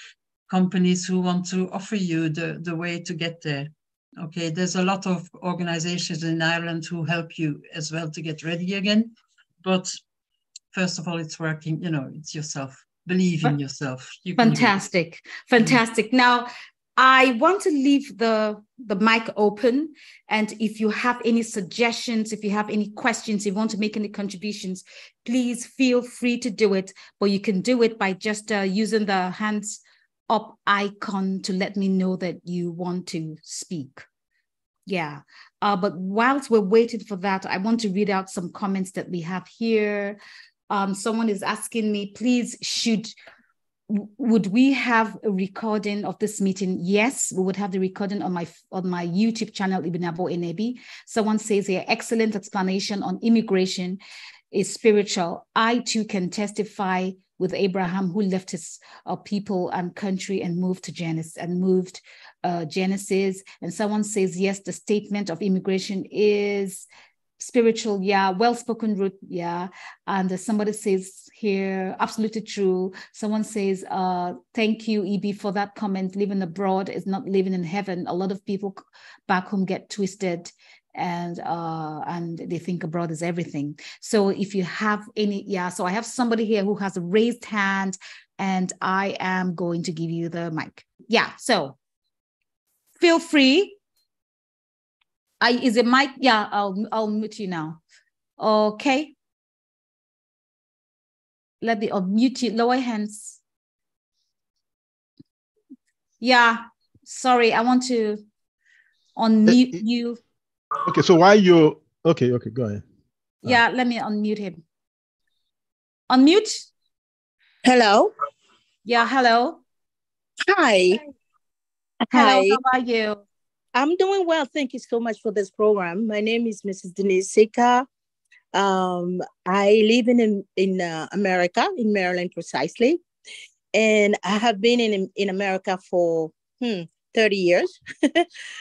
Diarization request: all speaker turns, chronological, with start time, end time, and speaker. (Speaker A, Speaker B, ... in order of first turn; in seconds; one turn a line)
Speaker A: 0.5-10.0
Speaker A: 10.7-14.8
Speaker B: 14.4-34.0
Speaker B: 34.9-40.2
Speaker B: 40.7-43.1
Speaker B: 43.9-54.0
Speaker B: 54.5-66.9
Speaker B: 67.4-91.8
Speaker B: 93.0-93.8
Speaker B: 95.4-97.8
Speaker B: 98.4-99.1
Speaker B: 101.6-103.4
Speaker B: 106.2-108.2
Speaker B: 109.2-110.2
Speaker C: 109.5-109.8
Speaker C: 110.8-112.8
Speaker B: 113.4-114.6
Speaker B: 116.1-116.7
Speaker D: 117.6-118.1
Speaker B: 118.8-119.6
Speaker D: 120.5-121.0
Speaker D: 122.1-122.6
Speaker B: 122.1-123.2
Speaker D: 123.8-127.9
Speaker D: 128.5-133.0
Speaker D: 133.7-138.3